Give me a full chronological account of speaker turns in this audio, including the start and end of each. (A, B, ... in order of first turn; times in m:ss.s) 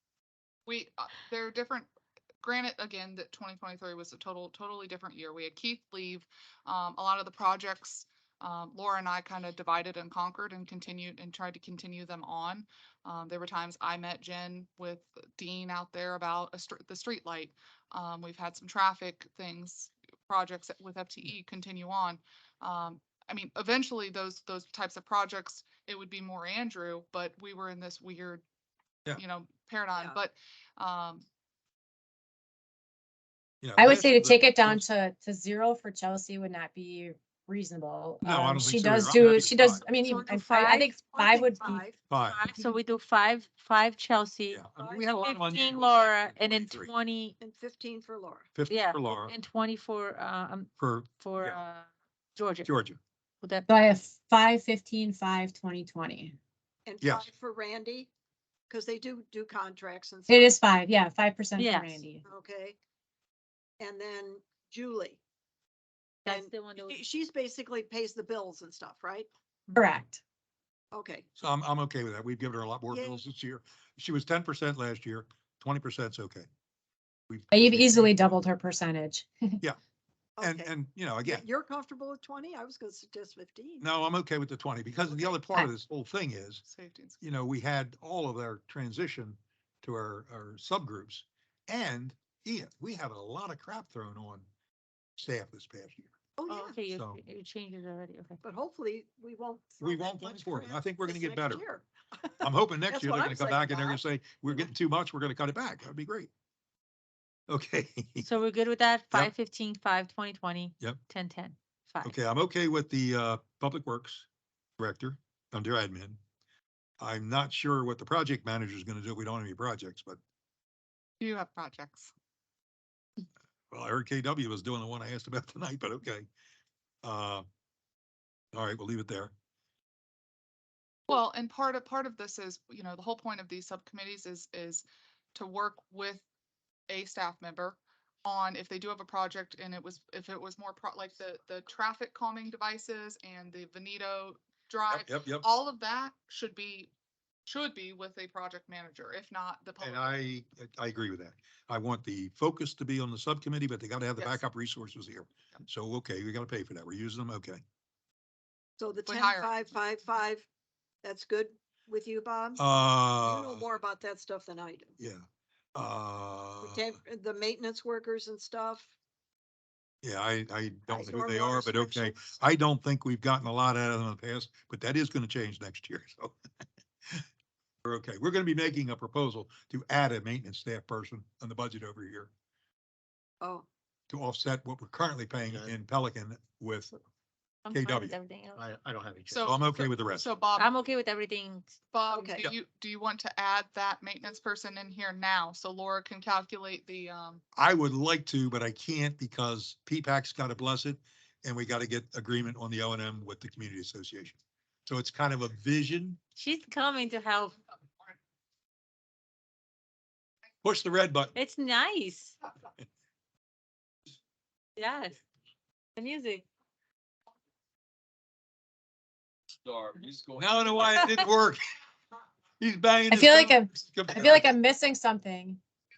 0:00.6-0:01.9 A
0:02.4-0:28.4 A
0:29.2-0:31.2 A
0:33.6-0:34.8 B
0:33.8-0:41.8 C
0:38.2-0:39.8 B
0:39.9-0:41.0 D
0:41.1-0:42.0 E
0:42.1-0:42.4 B
0:42.2-0:44.6 D
0:44.5-0:46.9 B
0:44.8-0:45.7 E
0:45.2-0:47.4 D
0:47.4-0:48.5 E
0:48.5-0:49.3 B
0:48.7-0:52.7 D
0:50.8-0:51.6 B
0:52.6-0:53.0 B
0:53.4-0:53.7 D
0:53.7-0:56.4 C
0:56.8-0:58.1 E
0:57.0-0:57.3 B
0:58.7-1:00.6 E
1:00.3-1:02.2 C
1:01.6-1:02.0 D
1:02.2-1:02.8 E
1:03.8-1:05.2 E
1:06.2-1:07.0 D
1:06.2-1:09.3 E
1:09.7-1:10.2 C
1:10.9-1:11.2 E
1:11.4-1:16.5 B
1:12.9-1:13.2 E
1:17.3-1:18.4 B
1:17.5-1:19.6 C
1:20.4-1:23.8 E
1:20.4-1:21.4 B
1:23.8-1:26.6 B
1:26.6-1:27.2 A
1:27.2-1:34.4 B
1:35.2-1:36.1 B
1:36.4-1:36.8 E
1:36.5-1:38.4 D
1:36.9-1:37.2 B
1:38.4-1:44.0 E
1:39.8-1:41.6 B
1:42.4-1:46.3 B
1:47.5-1:48.3 B
1:48.2-1:52.2 D
1:52.0-1:54.2 B
1:54.8-1:56.2 B
1:57.0-2:00.2 B
2:01.2-2:02.1 A
2:03.7-2:06.3 B
2:07.0-2:07.4 B
2:08.5-2:09.3 B
2:11.1-2:16.2 A
2:16.9-2:26.9 A
2:24.9-2:25.4 B
2:27.5-2:30.1 A
2:29.8-2:37.6 B
2:38.8-2:40.5 E
2:39.1-2:39.6 A
2:41.0-2:45.0 E
2:42.6-2:43.6 B
2:45.0-2:45.2 B
2:45.7-2:46.9 B
2:46.6-2:48.9 E
2:50.0-2:56.4 B
2:50.9-2:52.2 E
2:57.8-3:02.3 B
3:03.4-3:03.6 E
3:04.1-3:06.9 B
3:05.5-3:05.8 F
3:07.6-3:08.6 D
3:07.7-3:08.1 B
3:08.5-3:09.6 F
3:09.3-3:10.7 A
3:09.4-3:10.3 B
3:10.6-3:11.8 D
3:11.9-3:17.4 A
3:12.1-3:12.4 E
3:17.5-3:26.2 B
3:26.4-3:27.6 D
3:30.6-3:31.3 B
3:31.3-3:32.4 D
3:34.8-3:35.2 D
3:36.0-3:36.4 D
3:39.6-3:40.8 F
3:40.4-3:41.6 B
3:42.6-3:44.5 B
3:43.1-3:45.6 C